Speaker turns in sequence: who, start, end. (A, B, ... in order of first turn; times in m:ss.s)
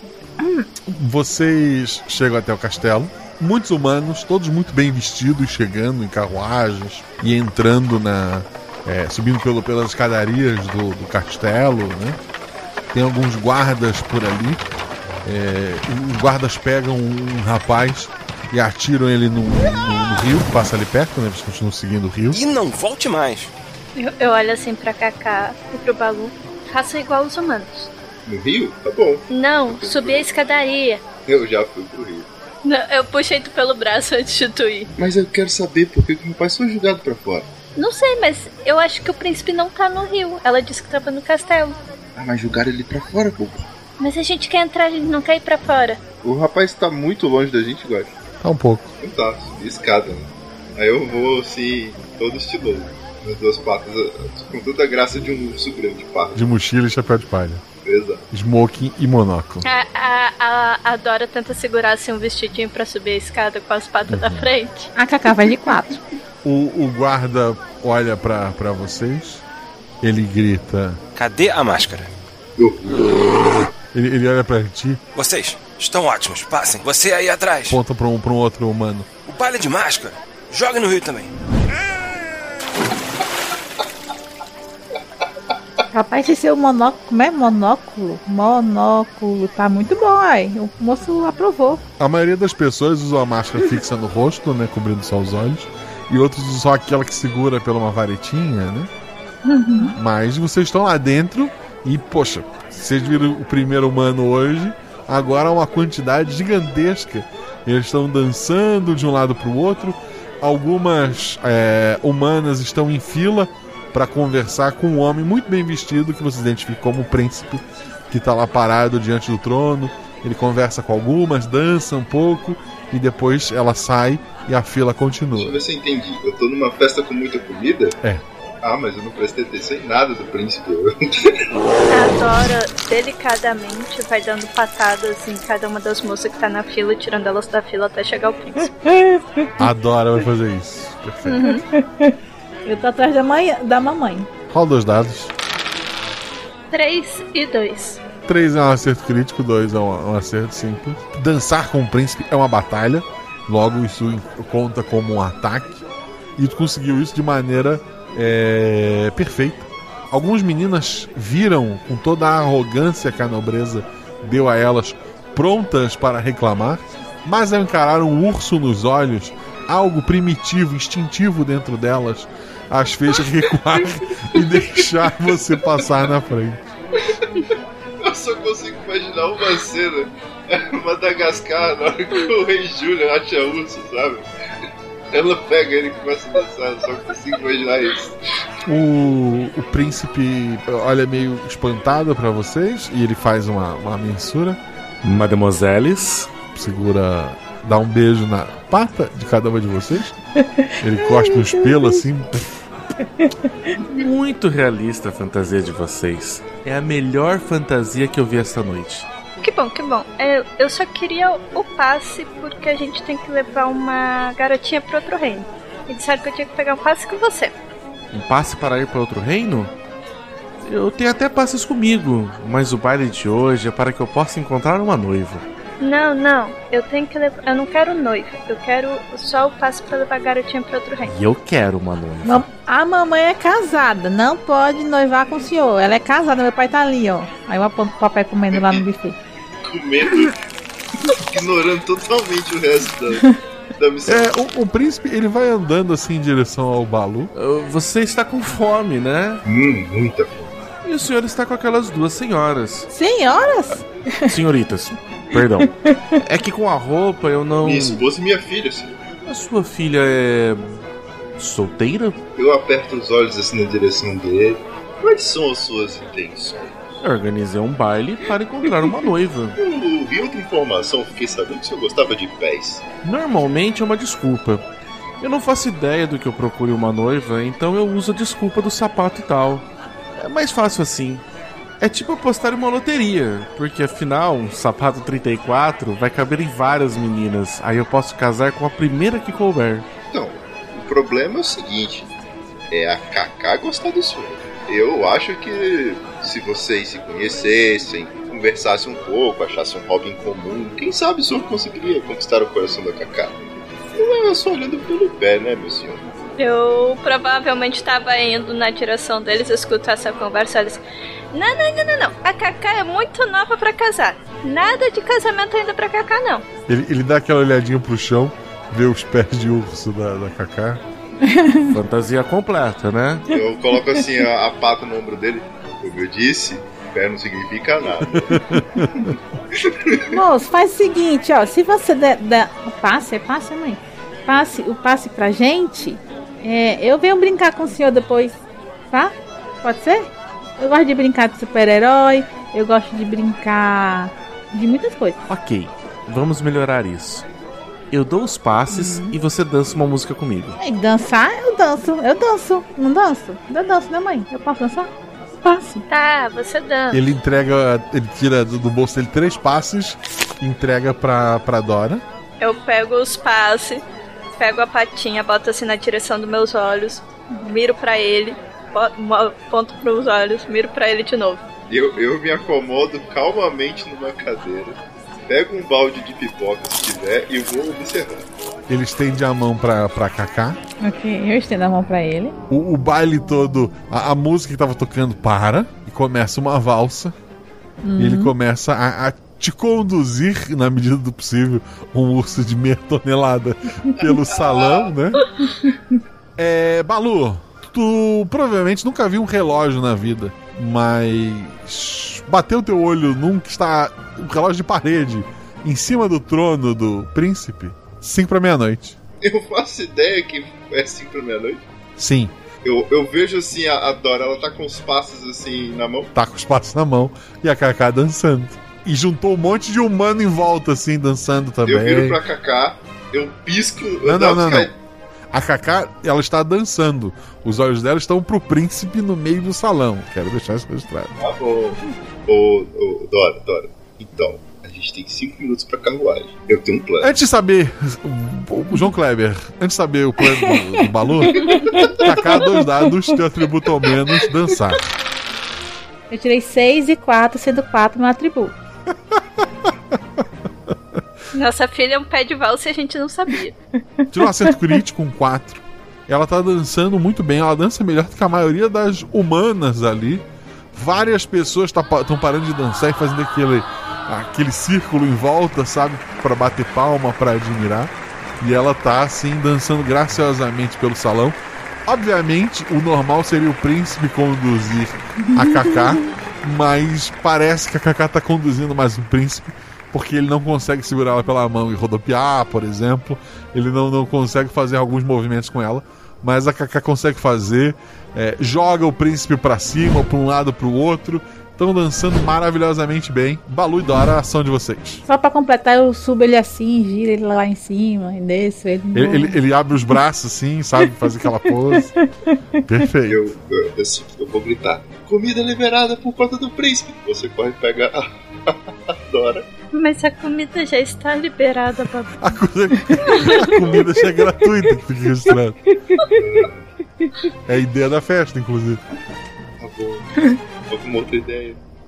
0:00.4-0:00.7 A
0:00.9-0:12.2 B
0:12.9-0:14.6 B
0:15.2-0:22.4 B
0:22.3-0:23.5 C
0:24.0-0:27.9 D
0:28.3-0:30.3 E
0:29.3-0:31.0 D
0:31.3-0:32.3 E
0:32.6-0:34.9 D
0:35.0-0:37.5 E
0:37.8-0:41.8 D
0:42.2-0:43.7 E
0:44.0-0:46.0 D
0:46.2-0:48.1 E
0:48.4-0:48.9 B
0:49.0-0:56.4 E
0:56.4-0:57.6 B
0:57.8-0:58.2 E
0:58.3-0:59.6 B
0:59.6-1:04.9 D
1:04.1-1:04.5 B
1:05.0-1:06.0 A
1:06.4-1:09.4 B
1:10.0-1:11.0 B
1:11.2-1:12.1 C
1:12.6-1:13.4 E
1:13.9-1:15.0 B
1:15.2-1:17.8 C
1:17.7-1:19.1 B
1:19.2-1:21.3 C
1:25.9-1:31.8 A
1:32.0-1:38.9 B
1:39.5-1:39.9 A
1:40.0-2:05.6 B
2:05.4-2:08.0 E
2:08.6-2:11.4 E
2:11.9-2:18.8 D
2:18.9-2:19.5 A
2:19.6-2:21.4 B
2:21.3-2:21.6 D
2:21.4-2:24.3 A
2:24.5-2:25.3 B
2:26.7-2:28.0 D
2:28.3-2:35.8 B
2:36.4-2:56.6 B
2:58.0-3:04.3 E
3:05.1-3:08.1 E
3:08.7-3:14.6 B
3:15.0-3:16.3 F
3:16.5-3:20.1 B
3:20.4-3:22.0 A
3:20.8-3:22.6 B
3:23.9-3:29.1 F
3:29.4-3:37.5 D
3:38.1-3:39.7 F
3:40.6-3:45.4 F
3:45.8-3:51.1 D
3:51.0-3:52.5 F
3:52.2-3:59.2 A
3:58.5-3:58.8 E
3:59.6-4:00.4 E
4:01.0-4:04.3 E
4:04.1-4:07.3 B
4:07.3-4:09.4 F
4:09.4-4:10.5 E
4:10.8-4:12.9 F
4:12.9-4:14.3 A
4:14.3-4:18.0 F
4:15.6-4:16.0 A
4:17.6-4:19.0 E
4:19.3-4:20.8 F
4:21.4-4:22.2 F
4:22.4-4:27.0 E
4:27.0-4:29.6 F
4:29.6-4:32.8 E
4:33.0-4:34.6 F
4:35.2-4:41.2 F
4:41.8-4:49.9 F
4:50.1-4:52.1 E
4:52.7-5:03.4 E
5:03.9-5:06.0 E
5:06.4-5:10.8 D
5:11.3-5:16.4 D
5:16.7-5:20.8 B
5:21.3-5:21.7 A
5:21.7-5:23.2 F
5:23.3-5:28.3 E
5:28.3-5:28.9 B
5:29.1-5:30.1 E
5:30.1-5:38.4 A
5:38.9-5:45.2 A
5:45.3-5:47.3 F
5:47.9-5:50.6 F
5:48.7-5:49.2 A
5:50.6-5:54.9 A
5:55.4-5:55.8 A
5:55.9-5:57.0 D
5:56.9-6:02.0 B
6:02.4-6:03.8 D
6:04.4-6:11.4 D
6:11.7-6:18.3 E
6:18.7-6:20.6 B
6:20.8-6:22.4 A
6:22.5-6:27.2 B
6:27.8-6:28.3 A
6:28.0-6:35.2 B
6:34.1-6:34.9 E
6:36.4-6:49.0 B
6:49.2-6:51.6 E
6:52.0-6:52.4 B
6:52.6-6:56.1 E
6:56.1-7:02.2 B
7:01.7-7:04.7 E
7:04.0-7:04.7 B
7:05.3-7:11.1 B
7:11.2-7:17.1 E
7:17.0-7:24.8 B
7:20.4-7:20.6 A
7:21.3-7:22.8 A
7:26.1-7:28.5 A
7:31.3-7:33.6 D
7:34.0-7:34.8 A
7:34.1-8:15.0 B
7:55.2-7:55.9 A
8:15.1-8:19.4 A
8:18.9-8:21.9 B
8:21.8-8:22.6 A
8:22.7-8:23.2 B
8:23.1-8:29.5 E
8:29.7-8:32.2 D
8:32.2-8:35.6 B
8:32.9-8:34.2 A
8:35.9-8:36.2 A
8:36.1-8:36.7 E
8:37.5-8:38.8 B
8:39.6-8:41.6 E